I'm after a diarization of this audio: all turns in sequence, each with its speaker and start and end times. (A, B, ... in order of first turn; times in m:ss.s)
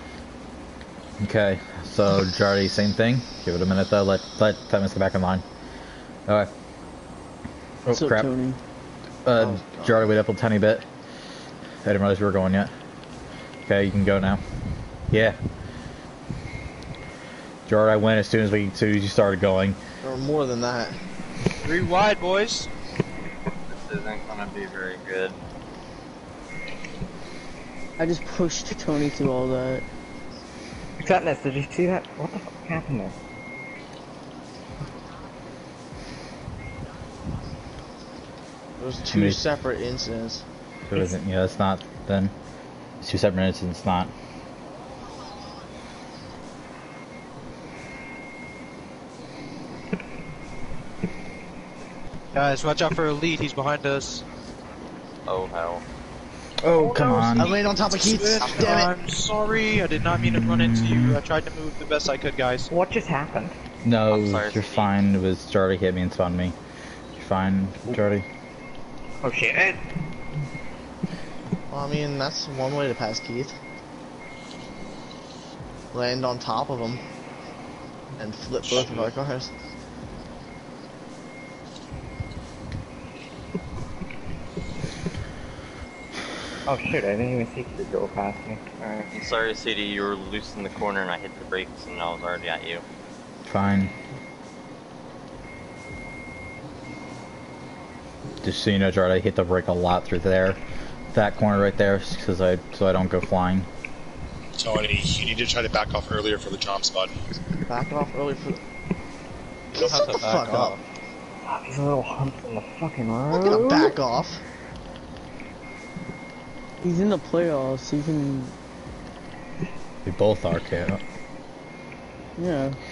0:01.2-0:05.4 A
0:07.8-0:08.3 A
0:07.9-0:08.6 B
0:09.2-0:10.9 A
0:09.4-0:10.1 C
0:11.8-0:12.7 A
0:13.7-0:14.4 A
0:15.1-0:15.4 A
0:17.7-0:19.8 A
0:20.0-0:21.0 C
0:21.6-0:22.7 D
0:23.7-0:25.4 E
0:28.0-0:29.8 B
0:31.0-0:33.1 F
0:38.8-0:40.4 C
0:39.1-0:39.4 A
0:40.9-0:42.3 A
0:43.0-0:44.1 A
0:52.3-0:54.2 D
0:55.3-0:55.8 E
0:56.6-0:57.6 A
0:56.8-1:02.7 D
0:57.4-0:58.9 C
0:58.4-0:58.9 F
1:00.1-1:01.2 A
1:02.7-1:03.6 F
1:03.8-1:06.6 A
1:04.1-1:04.9 E
1:07.2-1:08.2 A
1:09.2-1:09.8 F
1:11.7-1:13.6 C
1:15.9-1:17.0 C
1:18.2-1:19.5 C
1:26.7-1:29.1 F
1:29.1-1:32.8 E
1:33.5-1:33.9 A
1:38.4-1:40.6 A
1:41.1-1:43.7 A
1:44.6-1:47.1 G
1:47.7-1:48.6 C
1:49.8-1:50.8 C
1:49.8-1:50.8 D
1:51.5-1:54.0 F
1:53.3-1:54.4 C
1:56.8-1:58.5 B
2:00.1-2:01.0 A
2:02.4-2:02.8 B